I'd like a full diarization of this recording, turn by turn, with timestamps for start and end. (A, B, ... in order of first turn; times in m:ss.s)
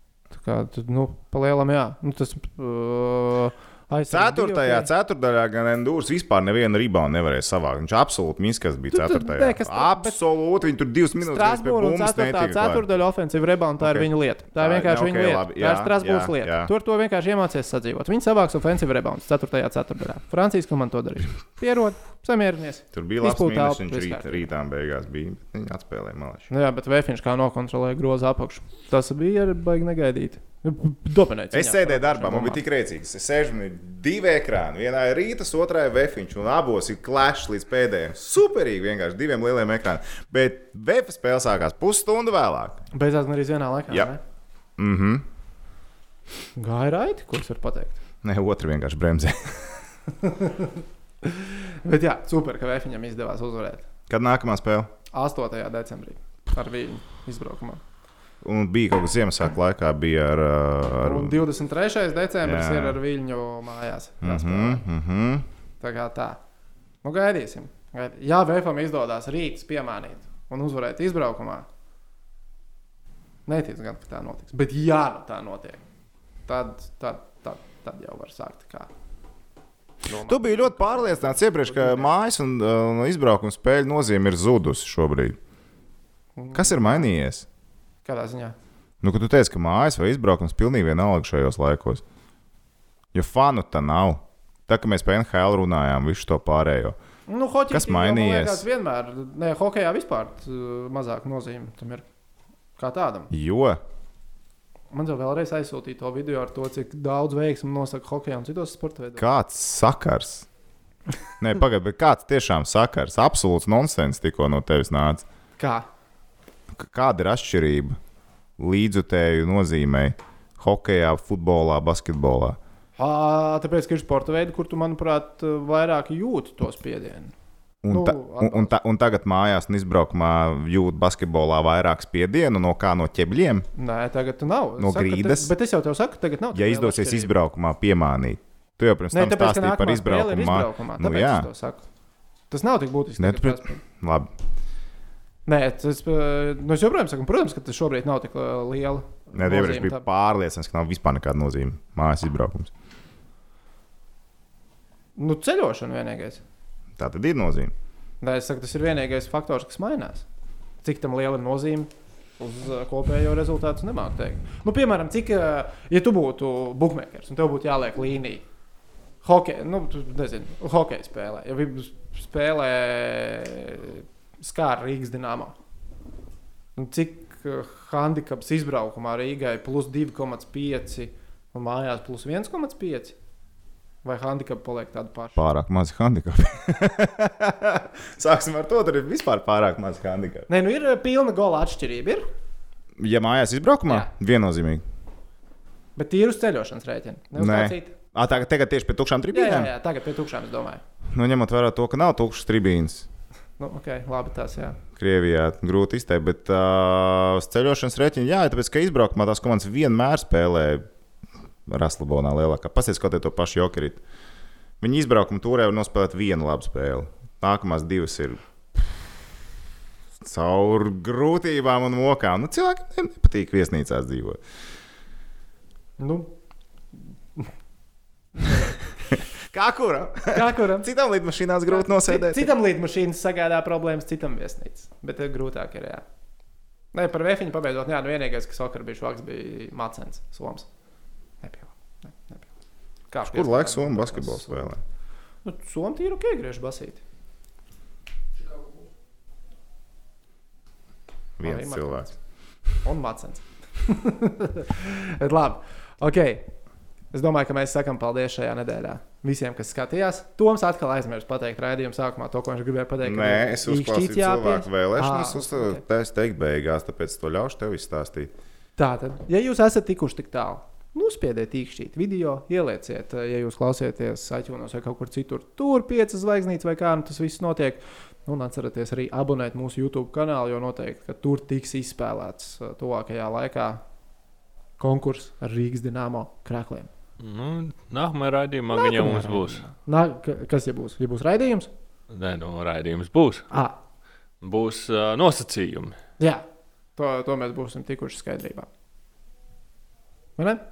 0:00.3-0:04.9 A
0:04.1-0:12.8 B
0:08.9-0:10.2 A
0:11.2-0:24.5 A
0:13.8-0:16.7 B
0:22.9-0:26.5 B
0:26.5-0:32.6 A
0:31.5-0:42.8 B
0:42.9-0:44.2 A
0:44.8-0:45.2 B
0:46.6-0:48.0 A
0:48.2-0:49.7 B
0:50.2-0:53.9 A
0:54.1-0:54.9 B
0:55.1-0:57.8 A
0:58.4-1:01.4 B
1:01.0-1:04.8 A
1:02.4-1:03.0 B
1:04.2-1:05.4 B
1:05.8-1:06.4 A
1:07.0-1:11.6 A
1:13.5-1:15.8 A
1:16.5-1:18.9 A
1:20.0-1:22.1 A
1:20.2-1:25.4 B
1:26.4-1:27.1 A
1:26.5-1:27.4 B
1:28.0-1:28.6 A
1:29.0-1:32.0 B
1:33.1-1:37.0 B
1:37.3-1:42.0 A
1:37.7-1:38.6 B
1:42.8-1:43.3 A
1:43.3-1:43.8 B
1:44.9-1:49.2 A
1:49.2-1:50.5 B
1:51.4-1:55.2 B
1:55.6-1:55.8 A
1:56.7-1:58.0 B
1:58.6-2:02.6 B
2:03.0-2:07.3 A
2:07.8-2:13.7 B
2:07.9-2:08.7 A
2:13.8-2:17.3 A
2:14.8-2:15.5 B
2:16.5-2:21.5 B
2:19.1-2:21.8 A
2:22.5-2:23.8 A
2:23.2-2:24.3 B
2:25.4-2:30.0 A
2:29.3-2:32.7 B
2:35.2-2:36.4 A
2:37.0-2:37.7 B
2:38.2-2:40.2 A
2:40.8-2:48.4 A
2:49.2-2:55.5 A
2:56.8-3:03.2 A
3:04.0-3:05.4 A
3:05.4-3:10.5 B
3:10.5-3:12.2 A
3:13.0-3:14.8 B
3:16.0-3:18.0 A
3:17.4-3:19.7 B
3:19.3-3:20.8 A
3:21.1-3:23.1 B
3:23.6-3:24.8 A
3:24.9-3:30.8 B
3:31.7-3:34.0 B
3:34.8-3:39.0 B
3:40.2-3:44.4 B
3:46.0-3:46.3 A
3:48.4-3:48.8 A
3:49.1-3:52.5 B
3:50.3-3:50.9 A
3:51.7-3:56.0 A
3:56.9-4:00.7 A
4:01.4-4:02.4 A
4:03.1-4:04.7 A
4:03.2-4:04.8 B
4:05.4-4:07.0 A
4:11.4-4:12.1 B
4:11.4-4:12.1 A
4:12.8-4:16.5 A
4:17.1-4:25.8 A
4:23.0-4:28.3 B
4:28.8-4:43.8 A
4:44.8-4:46.9 A
4:47.2-4:49.6 C
4:48.7-4:51.7 A
4:52.1-4:53.5 C
4:53.5-4:53.8 A
4:54.4-4:56.0 C
4:56.2-4:56.4 A
4:57.0-4:58.7 A